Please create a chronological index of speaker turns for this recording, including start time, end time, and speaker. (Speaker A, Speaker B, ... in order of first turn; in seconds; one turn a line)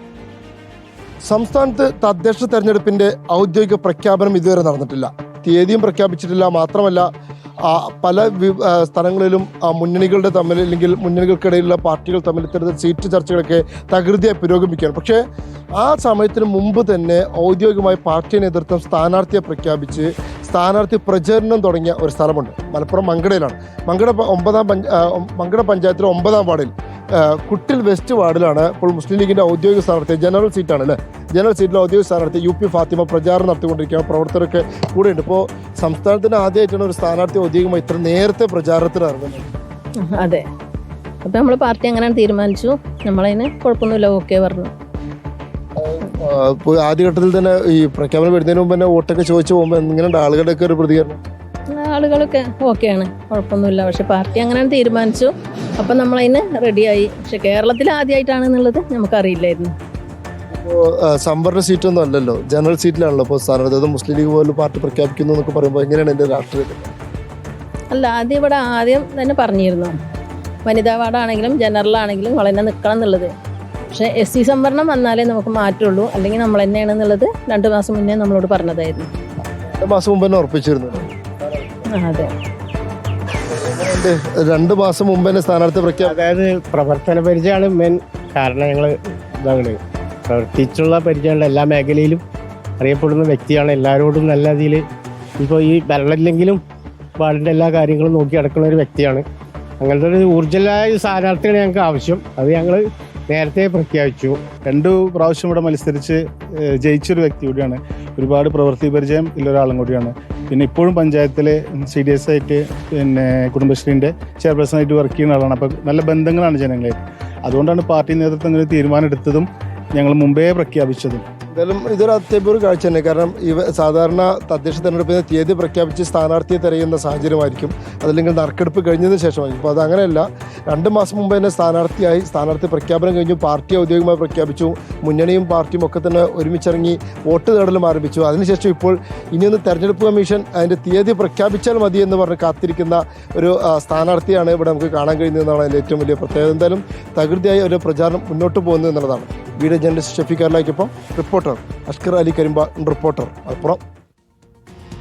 Speaker A: 1.3-7.0
Speaker A: 7.6-15.2
Speaker A: 15.8-39.5
Speaker B: 40.0-40.4
Speaker B: 41.2-44.7
Speaker A: 45.8-51.2
Speaker B: 51.7-59.7
Speaker A: 60.5-66.9
Speaker B: 67.9-69.9
Speaker B: 70.7-73.3
Speaker B: 73.9-79.1
Speaker A: 79.8-81.8
Speaker B: 81.9-82.3
Speaker A: 83.5-86.1
Speaker C: 86.0-92.2
Speaker C: 92.8-94.8
Speaker C: 95.4-96.6
Speaker C: 97.2-99.2
Speaker C: 99.8-104.4
Speaker D: 104.6-121.2
Speaker A: 121.5-153.8